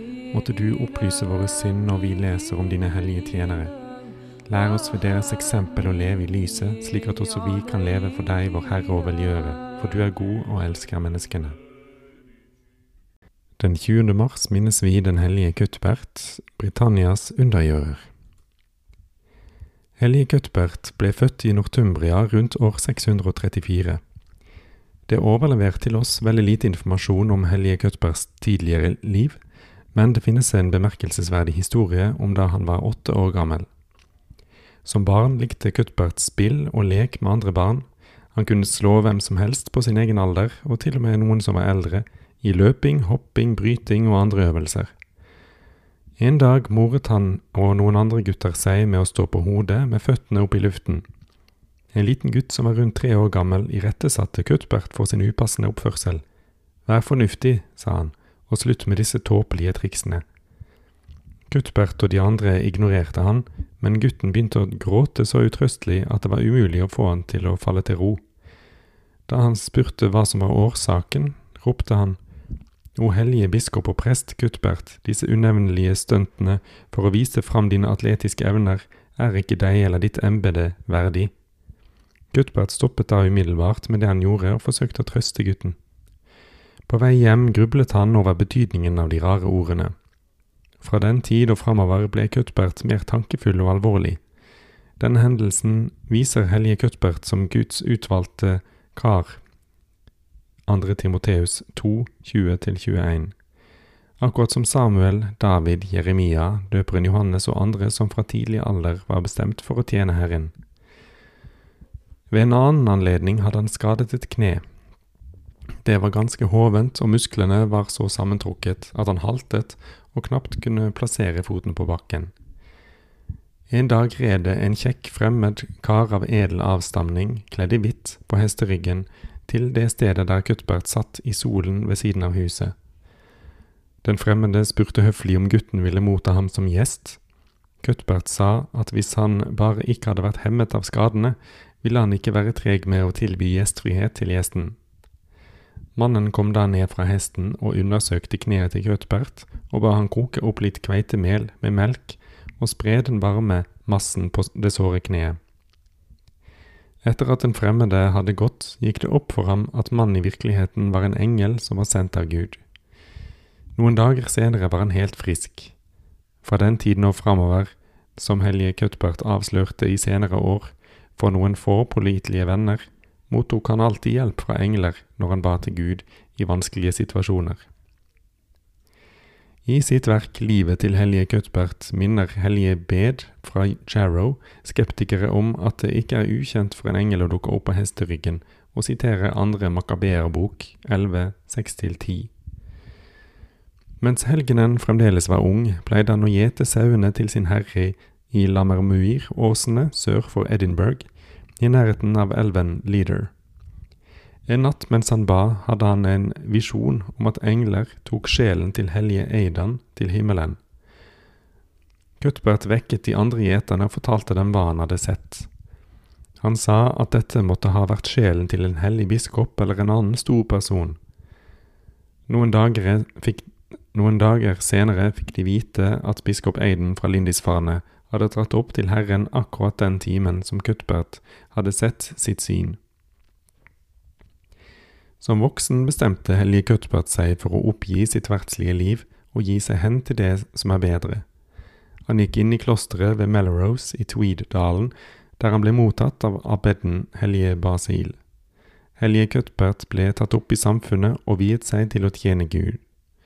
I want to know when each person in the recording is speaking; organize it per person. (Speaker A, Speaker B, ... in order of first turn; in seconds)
Speaker A: 0.3-3.8, 4.5-11.6, 13.6-18.1, 20.0-24.0, 25.1-29.4, 29.9-33.7, 34.9-44.9, 46.2-51.0, 51.9-56.2, 56.9-60.2, 61.5-68.2, 69.3-72.2, 73.0-81.3, 82.3-85.8, 86.9-89.9, 90.8-94.2, 95.0-99.4, 100.7-103.3, 104.2-110.5, 112.3-114.6, 115.8-122.3, 123.7-132.8, 134.0-137.2, 137.8-144.8, 146.0-155.4, 157.0-162.6, 163.8-165.8, 166.4-177.7, 179.7-192.3, 194.0-201.1, 201.6-203.3, 204.5-210.6, 212.2-215.5, 216.4-221.0, 222.3-232.8, 235.2-241.3, 242.1-248.2, 249.0-252.8